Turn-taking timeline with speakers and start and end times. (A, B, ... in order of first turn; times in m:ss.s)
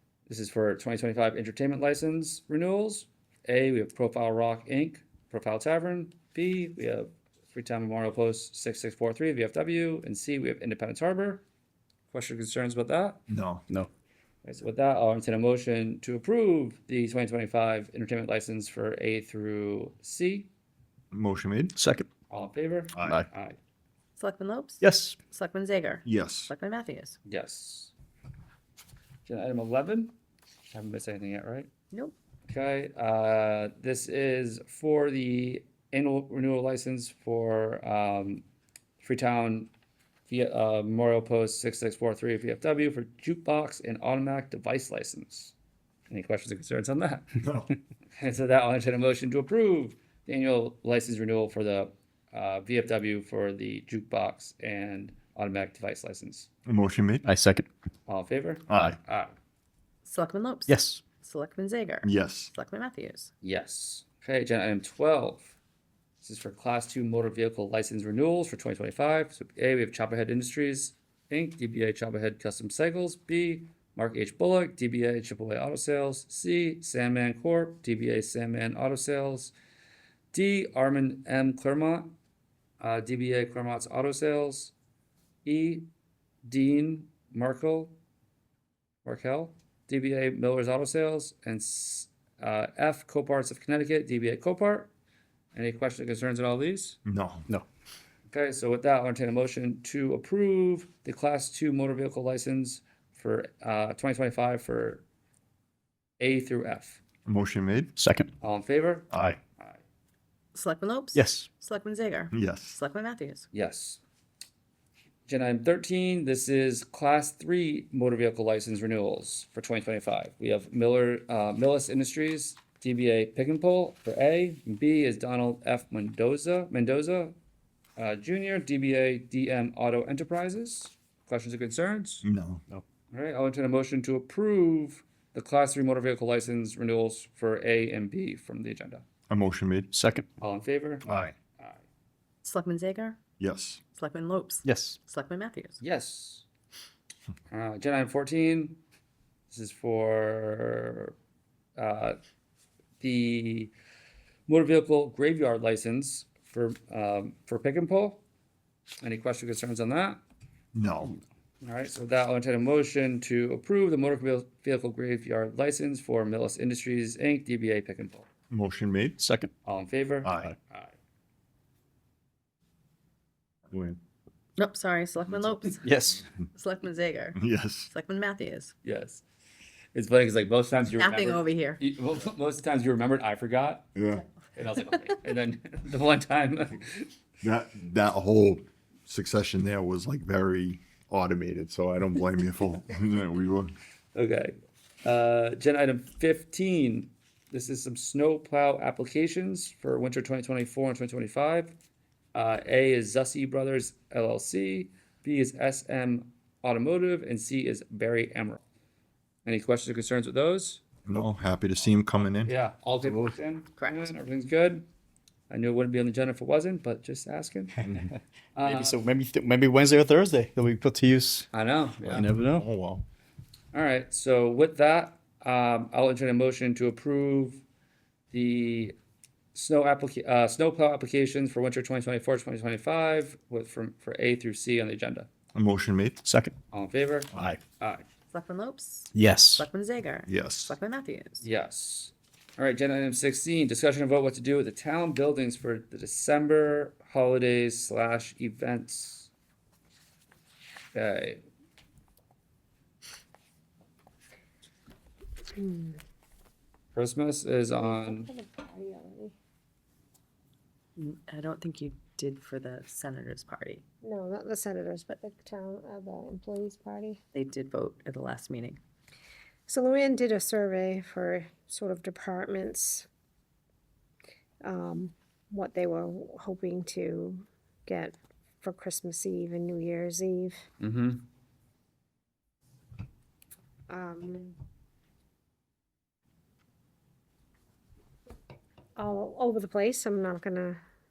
0:00.3-0:11.4 A
0:12.1-0:13.2 A
0:13.3-0:13.6 B
0:14.4-0:20.5 A
0:21.1-0:21.7 B
0:21.8-0:22.1 C
0:22.3-0:23.6 A
0:22.9-0:23.2 B
0:24.2-0:27.2 D
0:24.8-0:25.2 C
0:26.0-0:26.5 B
0:27.3-0:27.9 A
0:29.3-0:30.2 A
0:30.7-0:31.7 A
0:32.5-0:38.4 A
0:39.0-0:39.7 A
0:40.3-0:45.5 A
0:46.1-0:47.4 A
0:47.4-0:47.7 B
0:48.2-0:56.5 A
0:56.7-0:57.2 B
0:57.2-0:57.7 C
0:58.1-0:59.3 A
0:58.7-0:59.0 B
1:00.0-1:03.3 D
1:00.7-1:01.0 C
1:02.0-1:02.5 B
1:03.4-1:05.6 A
1:06.2-1:19.5 A
1:20.3-1:22.2 A
1:22.8-1:24.7 A
1:25.4-1:25.9 A
1:26.4-1:28.0 A
1:29.0-1:34.9 A
1:35.5-1:37.0 A
1:37.0-1:37.4 B
1:38.3-1:45.0 A
1:46.2-1:47.0 A
1:47.2-1:47.9 B
1:48.0-1:48.3 C
1:48.4-1:49.8 A
1:49.1-1:49.4 B
1:50.5-1:53.5 D
1:51.2-1:51.5 C
1:52.3-1:52.8 B
1:53.5-1:54.0 A
1:55.3-2:07.4 A
2:08.0-2:12.2 A
2:12.2-2:12.6 B
2:13.1-2:19.0 A
2:19.3-2:19.9 B
2:19.9-2:20.3 C
2:20.4-2:21.0 A
2:21.0-2:21.4 B
2:22.4-2:23.2 D
2:23.4-2:23.8 B
2:23.9-2:25.8 D
2:24.6-2:25.0 C
2:25.8-2:26.4 A
2:27.5-2:28.8 A
2:29.5-2:31.1 A
2:31.8-2:32.2 A
2:33.0-2:33.7 A
2:34.5-2:38.2 A
2:39.0-2:40.2 A
2:40.7-2:41.2 B
2:41.6-2:48.3 A
2:48.5-2:49.2 B
2:49.2-2:49.5 C
2:49.6-2:50.9 A
2:50.2-2:50.5 B
2:53.7-2:54.0 B
2:54.6-2:55.9 D
2:55.8-2:56.3 C
2:56.5-2:58.7 D
2:57.4-2:57.9 B
2:58.8-2:59.2 A
2:59.9-3:03.9 A
3:01.0-3:01.8 D
3:04.0-3:04.2 B
3:04.6-3:07.1 A
3:07.4-3:13.8 B
3:14.2-3:21.8 A
3:22.3-3:28.6 A
3:29.4-3:30.8 A
3:31.1-3:32.5 B
3:32.4-3:34.9 A
3:33.8-3:34.1 D
3:35.5-3:37.8 A
3:38.6-3:39.0 A
3:38.6-3:41.5 C
3:41.5-3:42.3 A
3:42.1-3:42.7 C
3:42.1-3:43.0 B
3:43.7-3:47.6 A
3:48.3-3:49.0 A
3:49.6-3:55.3 A
3:55.6-3:56.2 B
3:56.2-3:56.6 C
3:56.7-3:58.0 A
3:58.3-4:01.5 D
3:59.1-3:59.6 C
4:00.3-4:00.7 B
4:01.4-4:09.3 A
4:10.9-4:11.4 A
4:15.6-4:16.0 E
4:17.0-4:18.3 A
4:17.8-4:19.4 E
4:21.0-4:23.8 D
4:24.0-4:27.2 E
4:27.3-4:28.8 D
4:29.7-4:33.1 E
4:34.6-4:40.6 E
4:40.8-4:41.3 A
4:43.9-4:44.6 E
4:49.0-4:50.8 E